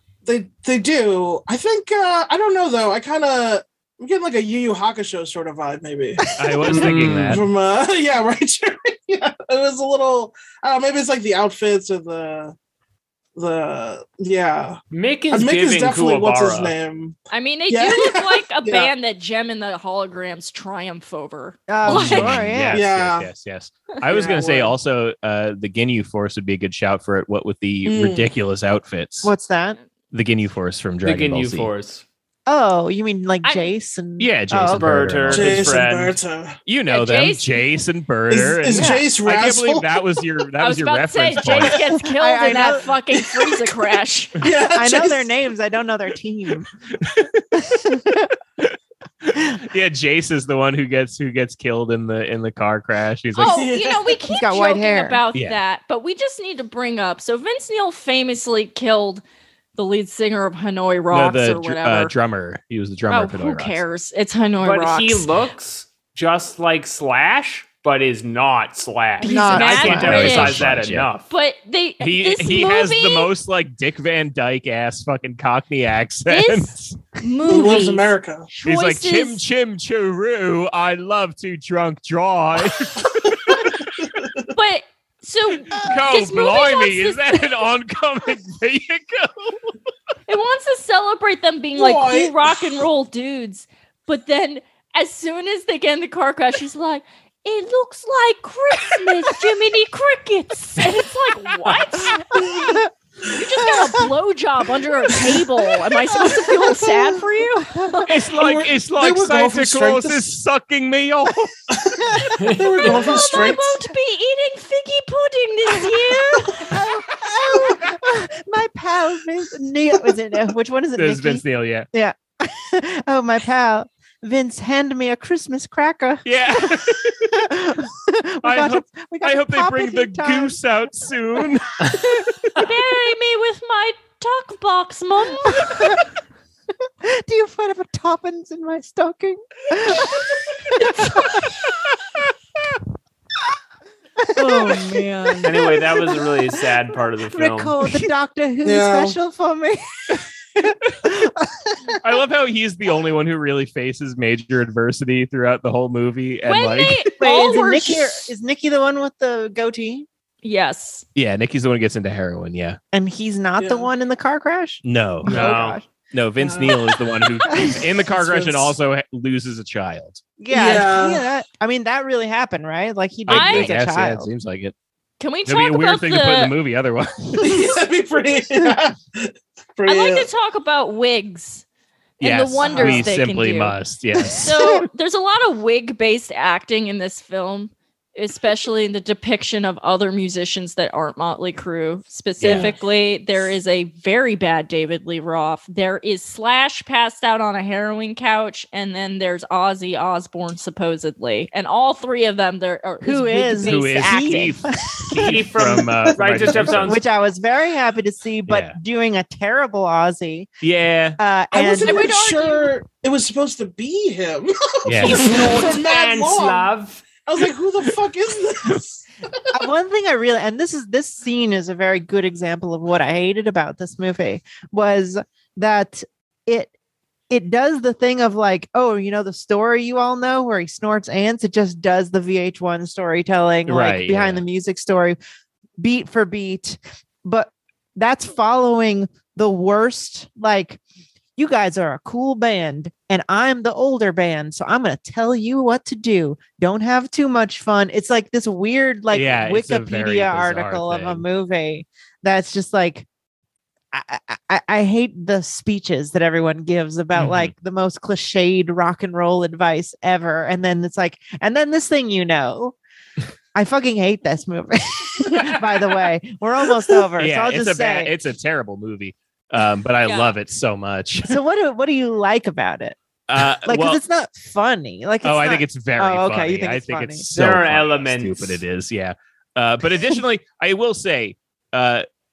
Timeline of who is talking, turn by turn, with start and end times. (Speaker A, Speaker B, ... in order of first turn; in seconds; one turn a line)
Speaker A: 0.2-12.5
Speaker B: 6.4-7.5
Speaker C: 6.7-7.4
Speaker A: 13.4-14.8
Speaker C: 14.9-16.7
Speaker A: 15.3-17.2
Speaker D: 17.3-22.4
Speaker A: 17.7-18.9
Speaker E: 21.7-22.8
Speaker B: 21.9-29.3
Speaker A: 22.7-23.3
Speaker A: 24.1-24.7
Speaker A: 27.9-28.3
Speaker E: 29.2-29.8
Speaker B: 30.1-31.7
Speaker C: 31.0-32.0
Speaker E: 32.5-34.9
Speaker D: 33.4-33.7
Speaker B: 34.2-35.8
Speaker C: 34.7-36.2
Speaker A: 35.3-36.6
Speaker B: 36.7-41.9
Speaker D: 36.9-37.5
Speaker A: 38.3-40.2
Speaker E: 38.7-39.0
Speaker D: 40.6-44.4
Speaker E: 42.0-42.9
Speaker A: 43.2-43.8
Speaker A: 44.4-45.3
Speaker E: 44.7-46.7
Speaker B: 47.0-47.7
Speaker E: 47.5-48.4
Speaker B: 48.6-53.7
Speaker D: 53.4-59.2
Speaker A: 53.5-54.1
Speaker E: 54.2-55.2
Speaker D: 59.8-62.1
Speaker B: 61.1-63.8
Speaker D: 63.1-65.3
Speaker C: 64.6-71.3
Speaker D: 69.2-70.7
Speaker E: 69.2-70.2
Speaker B: 69.6-71.1
Speaker D: 71.3-73.3
Speaker B: 72.0-77.0
Speaker D: 76.3-79.4
Speaker A: 77.5-78.5
Speaker B: 78.7-83.9
Speaker A: 83.3-84.3
Speaker D: 84.5-87.7
Speaker B: 85.7-89.7
Speaker D: 90.3-108.2
Speaker A: 91.8-92.8
Speaker E: 102.5-102.8
Speaker E: 103.7-104.0
Speaker E: 106.2-108.1
Speaker B: 108.0-111.5
Speaker A: 108.3-110.3
Speaker A: 111.7-113.8
Speaker C: 112.4-112.9
Speaker D: 112.8-116.8
Speaker E: 116.5-130.6
Speaker B: 121.0-121.9
Speaker B: 126.2-127.4
Speaker B: 128.4-132.7
Speaker D: 132.6-136.0
Speaker E: 135.5-136.1
Speaker E: 137.0-141.6
Speaker D: 140.8-141.4
Speaker E: 144.2-145.7
Speaker D: 144.4-145.6
Speaker C: 145.4-147.8
Speaker E: 147.3-152.0
Speaker A: 148.6-149.2
Speaker B: 152.0-157.1
Speaker D: 156.4-158.2
Speaker E: 157.2-160.1
Speaker D: 160.4-161.1
Speaker B: 161.2-162.8
Speaker E: 162.9-165.9
Speaker A: 163.6-163.9
Speaker B: 164.8-170.4
Speaker C: 165.3-165.8
Speaker A: 166.4-166.9
Speaker E: 167.5-167.8
Speaker A: 168.2-168.7
Speaker E: 170.4-174.3
Speaker A: 170.5-171.2
Speaker B: 173.3-174.7
Speaker D: 173.3-173.8
Speaker D: 175.2-176.5
Speaker B: 175.5-177.7
Speaker A: 177.4-180.3
Speaker D: 179.9-181.6
Speaker B: 182.2-184.8
Speaker D: 182.2-183.8
Speaker A: 182.6-183.1
Speaker D: 184.4-204.6
Speaker B: 192.4-192.7
Speaker E: 203.0-205.3
Speaker B: 203.6-207.0
Speaker C: 205.2-207.0
Speaker E: 206.8-210.6
Speaker B: 208.5-208.8
Speaker B: 210.6-211.2
Speaker E: 211.2-212.1
Speaker A: 211.5-216.7
Speaker D: 211.8-212.8
Speaker B: 214.9-215.3
Speaker C: 215.0-217.0
Speaker A: 217.3-219.5
Speaker E: 219.5-226.7
Speaker E: 227.3-235.2
Speaker B: 233.7-234.4
Speaker E: 235.8-240.8
Speaker E: 241.4-253.1
Speaker B: 249.1-251.2
Speaker E: 253.9-262.8
Speaker B: 257.1-257.5
Speaker E: 263.6-268.1
Speaker B: 267.2-271.4
Speaker D: 270.0-270.4
Speaker E: 271.2-273.0
Speaker B: 273.3-274.0
Speaker E: 273.6-277.3
Speaker B: 275.2-282.1
Speaker C: 277.3-278.6